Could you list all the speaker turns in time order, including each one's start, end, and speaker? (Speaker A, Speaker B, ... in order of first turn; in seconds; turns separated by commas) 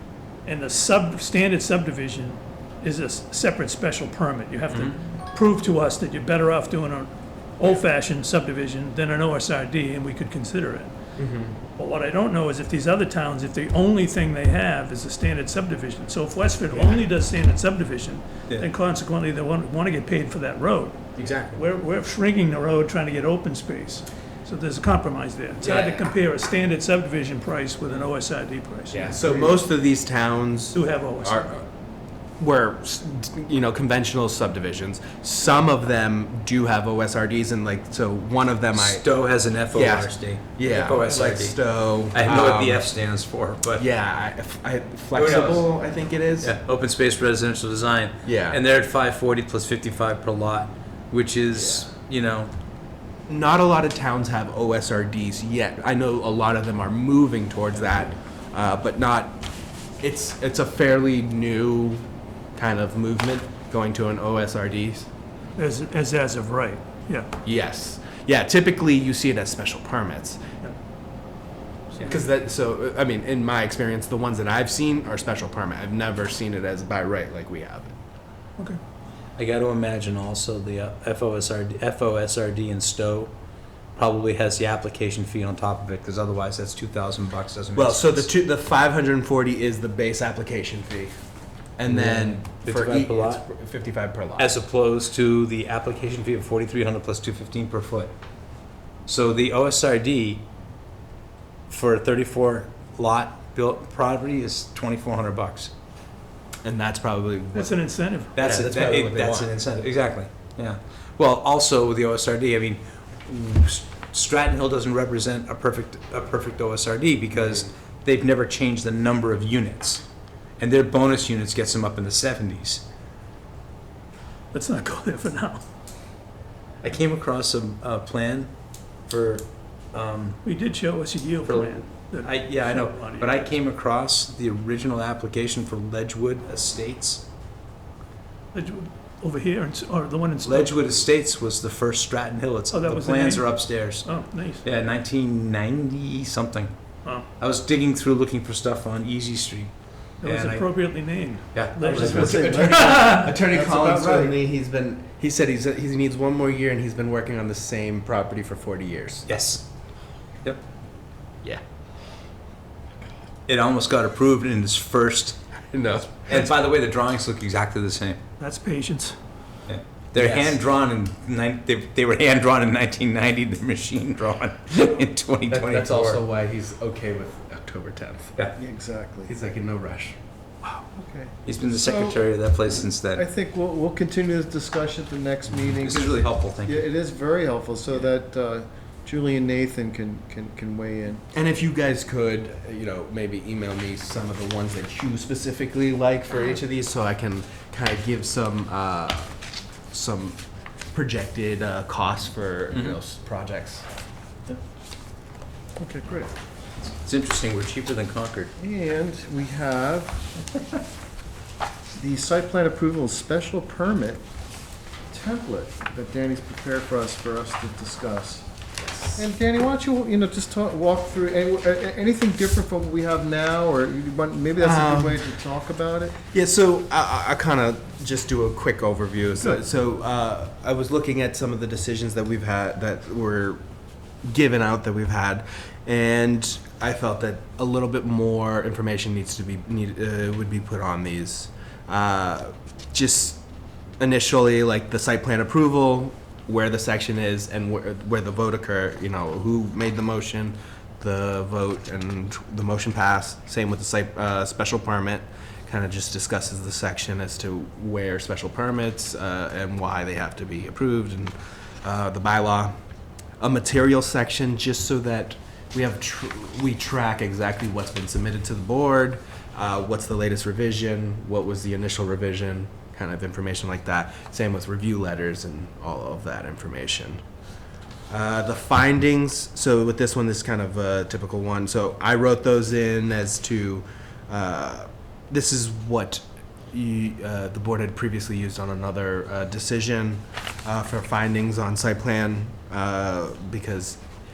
Speaker A: 0.4-10.9, Speaker B: 11.2-11.6, Speaker A: 11.8-29.6, Speaker B: 21.2-21.4, Speaker C: 21.2-21.6, Speaker B: 25.6-26.1, Speaker B: 28.9-31.6, Speaker A: 30.7-31.5, Speaker B: 32.4-39.0, Speaker C: 38.7-43.9, Speaker B: 39.7-42.9, Speaker B: 43.8-46.6, Speaker C: 45.1-45.7, Speaker C: 46.4-52.5, Speaker B: 48.2-48.6, Speaker B: 51.5-51.9, Speaker B: 53.3-59.4, Speaker B: 60.0-62.0, Speaker B: 62.5-65.1, Speaker A: 65.6-67.3, Speaker B: 67.4-70.4, Speaker B: 72.0-78.0, Speaker C: 79.4-83.3, Speaker C: 84.0-88.3, Speaker B: 87.7-91.1, Speaker B: 91.8-94.6, Speaker C: 91.9-93.4, Speaker C: 94.4-98.1, Speaker C: 99.1-100.4, Speaker C: 101.7-105.7, Speaker B: 106.6-107.8, Speaker A: 107.5-108.6, Speaker C: 108.3-120.0, Speaker B: 108.3-109.5, Speaker B: 117.3-117.7, Speaker C: 120.6-122.8, Speaker A: 124.5-125.6, Speaker C: 126.8-128.5, Speaker C: 129.1-130.4, Speaker A: 130.4-133.5, Speaker C: 131.4-137.2, Speaker A: 138.5-140.8, Speaker C: 140.4-144.1, Speaker A: 142.7-144.6, Speaker C: 144.6-146.7, Speaker C: 147.4-150.8, Speaker A: 150.2-153.4, Speaker C: 151.5-152.5, Speaker D: 151.8-154.4, Speaker B: 152.0-159.3, Speaker C: 159.2-159.7, Speaker C: 163.5-165.4, Speaker B: 165.7-166.5, Speaker C: 166.1-168.2, Speaker A: 168.4-169.1, Speaker C: 169.7-176.2, Speaker B: 170.2-170.6, Speaker B: 175.5-178.4, Speaker D: 178.6-179.4, Speaker B: 179.2-180.2, Speaker D: 180.8-191.2, Speaker C: 181.4-183.2, Speaker C: 185.5-186.8, Speaker B: 191.3-199.3, Speaker B: 199.9-200.4, Speaker B: 200.9-203.8, Speaker C: 202.7-203.0, Speaker D: 205.8-206.3, Speaker C: 206.8-208.5, Speaker D: 208.6-210.3, Speaker D: 211.9-214.2, Speaker D: 215.1-218.4, Speaker B: 218.8-219.2, Speaker D: 219.2-226.2, Speaker B: 224.6-225.3, Speaker B: 226.3-233.6, Speaker B: 234.2-243.4, Speaker B: 244.0-262.7, Speaker B: 263.4-277.2, Speaker B: 278.1-294.0